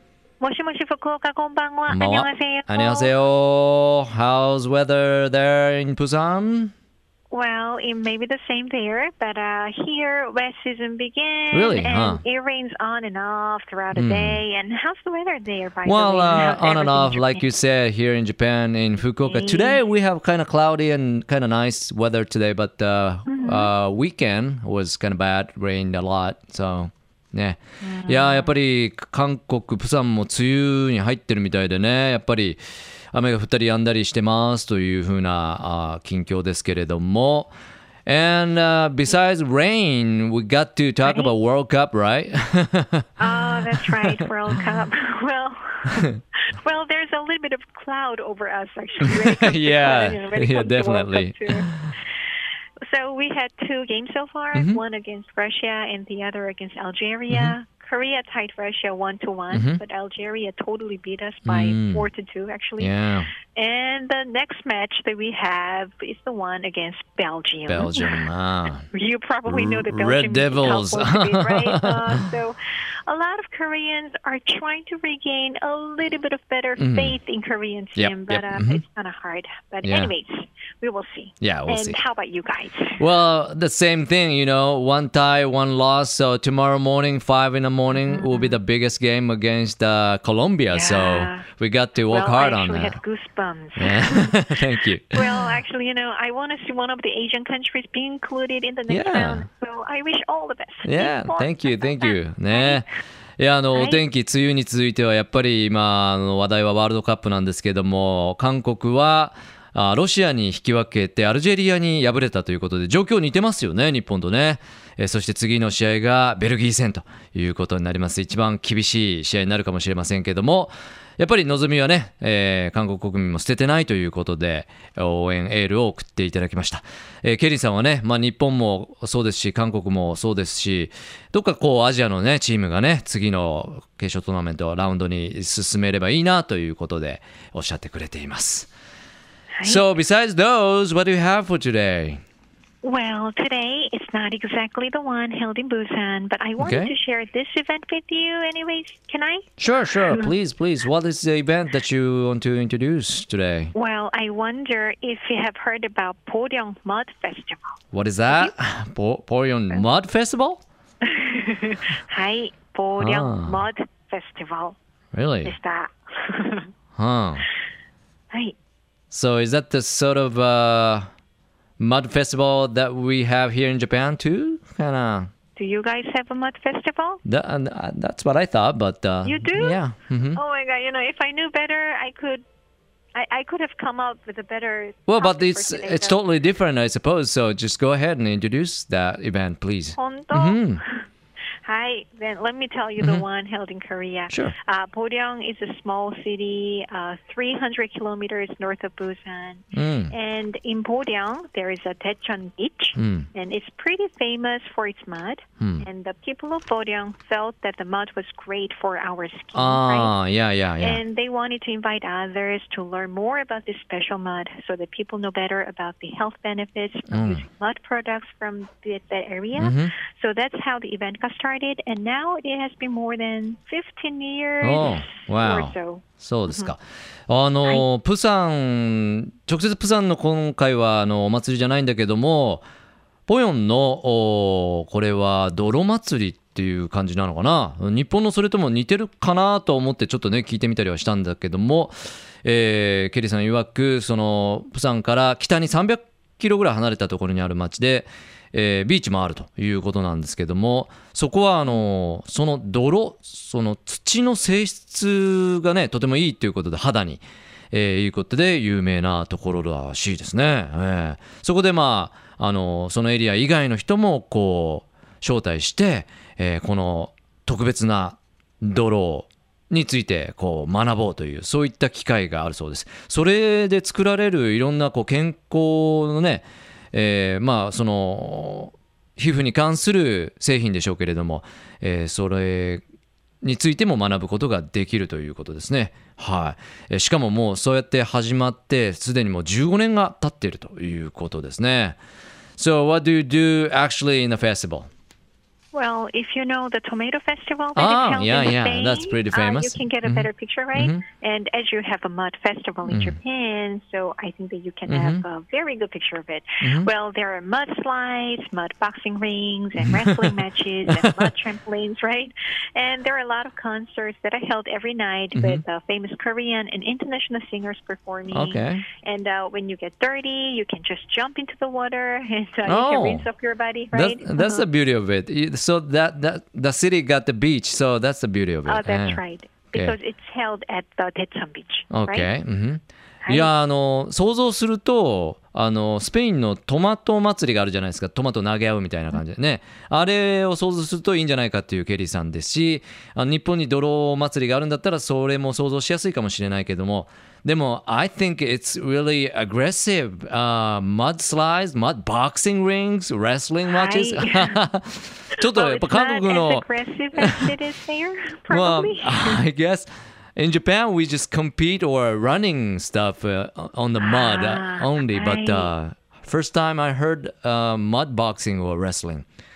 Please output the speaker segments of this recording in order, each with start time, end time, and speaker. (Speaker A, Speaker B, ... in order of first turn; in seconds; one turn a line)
Speaker A: 0.4-3.1
Speaker B: 1.9-6.7
Speaker A: 7.3-17.5
Speaker B: 11.5-12.2
Speaker B: 13.9-14.4
Speaker B: 15.8-32.6
Speaker A: 19.1-19.8
Speaker A: 23.3-23.7
Speaker A: 27.8-28.5
Speaker B: 33.1-37.5
Speaker B: 38.0-43.1
Speaker A: 41.0-41.3
Speaker A: 43.2-51.7
Speaker B: 49.0-51.9
Speaker A: 52.8-62.9
Speaker B: 54.5-54.8
Speaker B: 57.3-57.5
Speaker B: 59.5-59.8
Speaker B: 61.4-62.1
Speaker B: 62.8-63.3
Speaker A: 63.5-68.2
Speaker B: 67.7-68.9
Speaker A: 68.9-83.0
Speaker B: 69.5-72.3
Speaker B: 76.8-77.2
Speaker B: 78.0-78.8
Speaker B: 79.8-80.1
Speaker B: 81.4-82.0
Speaker B: 83.0-93.0
Speaker A: 88.0-88.6
Speaker A: 90.7-91.5
Speaker A: 92.0-94.6
Speaker B: 93.8-95.2
Speaker A: 95.1-102.8
Speaker B: 98.9-99.4
Speaker B: 100.8-102.8
Speaker B: 103.4-138.7
Speaker A: 103.7-104.0
Speaker A: 139.5-139.8
Speaker B: 139.6-142.2
Speaker A: 142.8-149.5
Speaker B: 146.6-146.9
Speaker B: 149.6-153.7
Speaker A: 150.1-150.3
Speaker A: 153.7-157.7
Speaker B: 157.9-160.6
Speaker A: 161.0-164.8
Speaker B: 163.0-163.6
Speaker B: 165.1-165.6
Speaker A: 165.4-166.7
Speaker B: 166.9-167.5
Speaker B: 169.1-171.1
Speaker B: 171.8-175.3
Speaker A: 175.6-177.2
Speaker B: 177.2-180.4
Speaker A: 179.2-179.8
Speaker A: 180.3-182.4
Speaker A: 183.1-186.2
Speaker B: 185.1-190.8
Speaker A: 189.9-190.8
Speaker A: 191.6-210.1
Speaker B: 193.0-193.2
Speaker B: 199.7-200.1
Speaker B: 203.0-203.3
Speaker B: 205.6-205.8
Speaker B: 209.5-211.0
Speaker A: 210.8-226.7
Speaker B: 217.1-217.4
Speaker B: 219.6-219.9
Speaker B: 224.6-232.7
Speaker B: 233.3-282.8
Speaker B: 283.4-292.0
Speaker B: 292.6-294.9
Speaker A: 295.7-324.6
Speaker B: 297.8-301.0
Speaker B: 302.9-303.2
Speaker B: 304.9-305.2
Speaker B: 306.6-306.9
Speaker B: 309.8-310.3
Speaker B: 310.9-311.3
Speaker B: 315.3-315.6
Speaker B: 318.3-318.8
Speaker B: 322.6-323.3
Speaker B: 323.9-329.2
Speaker A: 328.6-332.3
Speaker B: 331.9-357.5
Speaker A: 333.2-333.5
Speaker A: 353.7-354.6
Speaker A: 355.3-359.4
Speaker B: 358.5-369.2
Speaker A: 364.0-365.7